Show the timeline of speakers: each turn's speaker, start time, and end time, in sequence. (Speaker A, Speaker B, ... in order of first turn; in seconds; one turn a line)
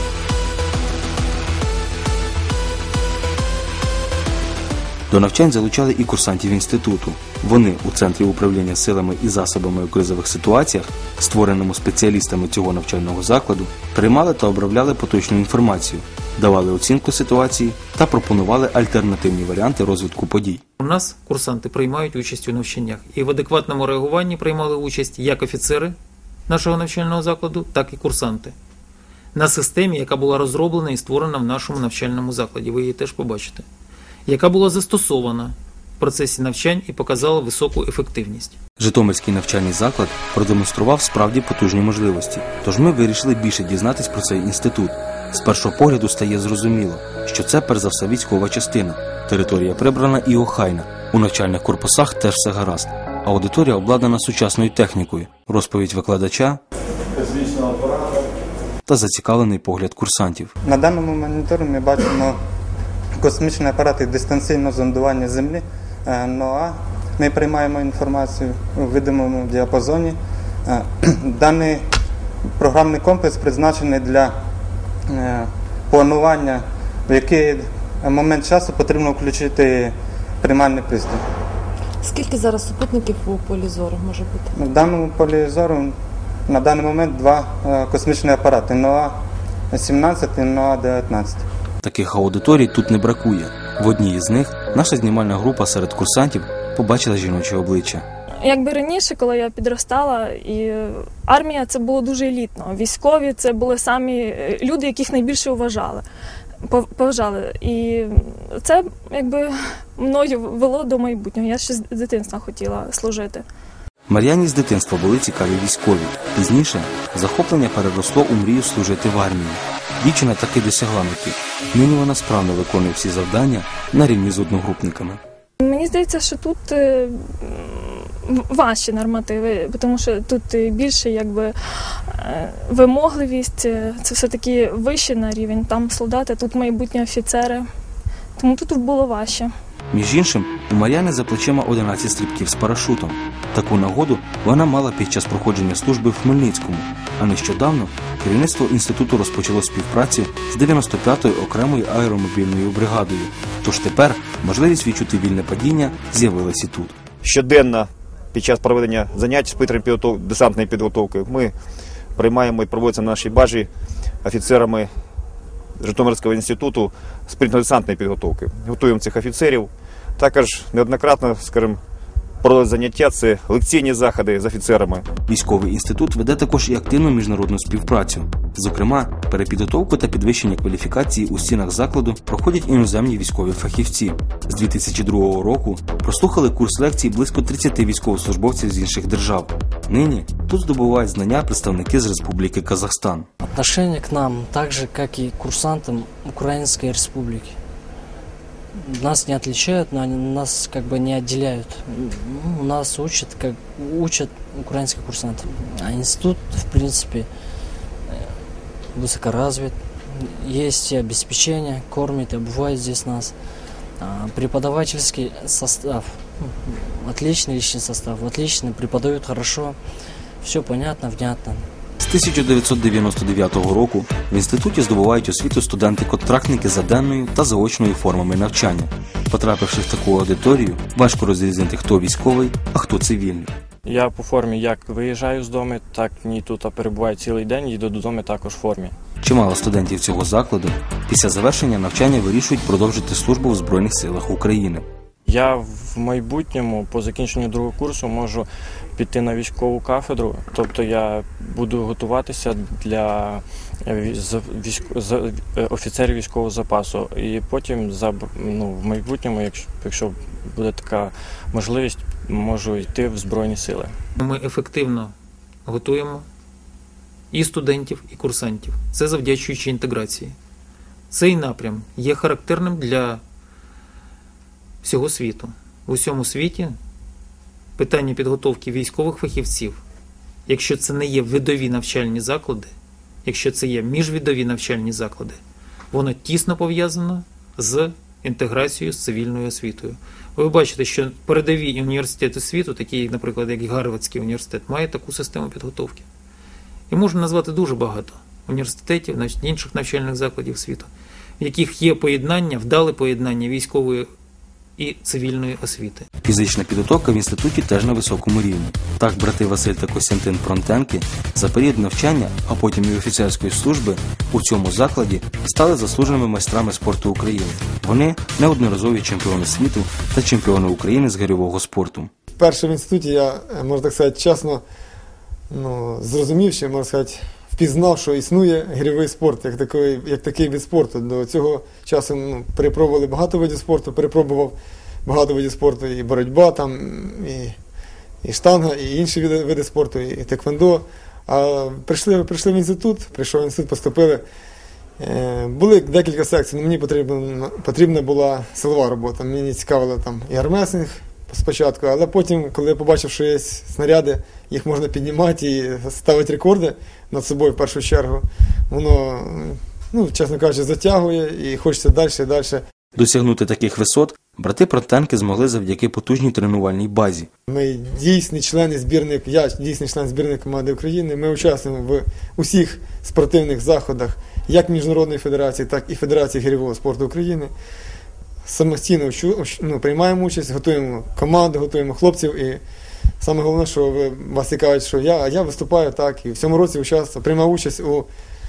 Speaker A: 5.1-20.6
Speaker B: 20.8-26.0
Speaker B: 26.5-28.5
Speaker B: 29.4-33.6
Speaker B: 34.3-38.6
Speaker A: 38.8-56.6
Speaker C: 57.2-58.2
Speaker A: 58.9-60.5
Speaker D: 60.6-62.4
Speaker D: 63.2-71.8
Speaker D: 72.6-74.3
Speaker D: 75.1-81.2
Speaker E: 82.0-84.5
Speaker D: 84.5-86.0
Speaker D: 86.5-89.2
Speaker D: 89.7-91.4
Speaker A: 91.8-98.0
Speaker F: 98.5-106.0
Speaker F: 106.7-113.4
Speaker A: 114.1-125.2
Speaker F: 125.6-137.7
Speaker F: 138.4-139.5
Speaker A: 139.9-157.0
Speaker C: 157.2-161.5
Speaker C: 162.2-163.7
Speaker C: 164.2-164.9
Speaker C: 165.8-171.8
Speaker C: 172.4-175.1
Speaker A: 175.3-193.3
Speaker G: 193.4-197.6
Speaker G: 198.8-207.3
Speaker G: 208.1-208.4
Speaker G: 208.9-213.4
Speaker G: 214.0-219.8
Speaker G: 220.4-221.7
Speaker A: 222.0-233.6
Speaker H: 233.9-238.9
Speaker A: 239.2-244.8
Speaker H: 245.3-263.9
Speaker B: 264.2-265.1
Speaker B: 265.7-266.2
Speaker B: 267.3-270.4
Speaker B: 271.1-273.2
Speaker B: 274.8-276.8
Speaker B: 277.8-279.8
Speaker B: 280.5-282.7
Speaker B: 283.2-285.4
Speaker B: 285.9-296.1
Speaker B: 296.9-304.1
Speaker B: 304.8-306.1
Speaker A: 306.2-322.1
Speaker I: 322.4-324.6
Speaker I: 325.5-337.6
Speaker I: 338.2-344.2
Speaker I: 345.0-362.6
Speaker A: 363.0-367.3
Speaker I: 367.5-377.5
Speaker I: 378.5-382.6
Speaker I: 383.2-388.1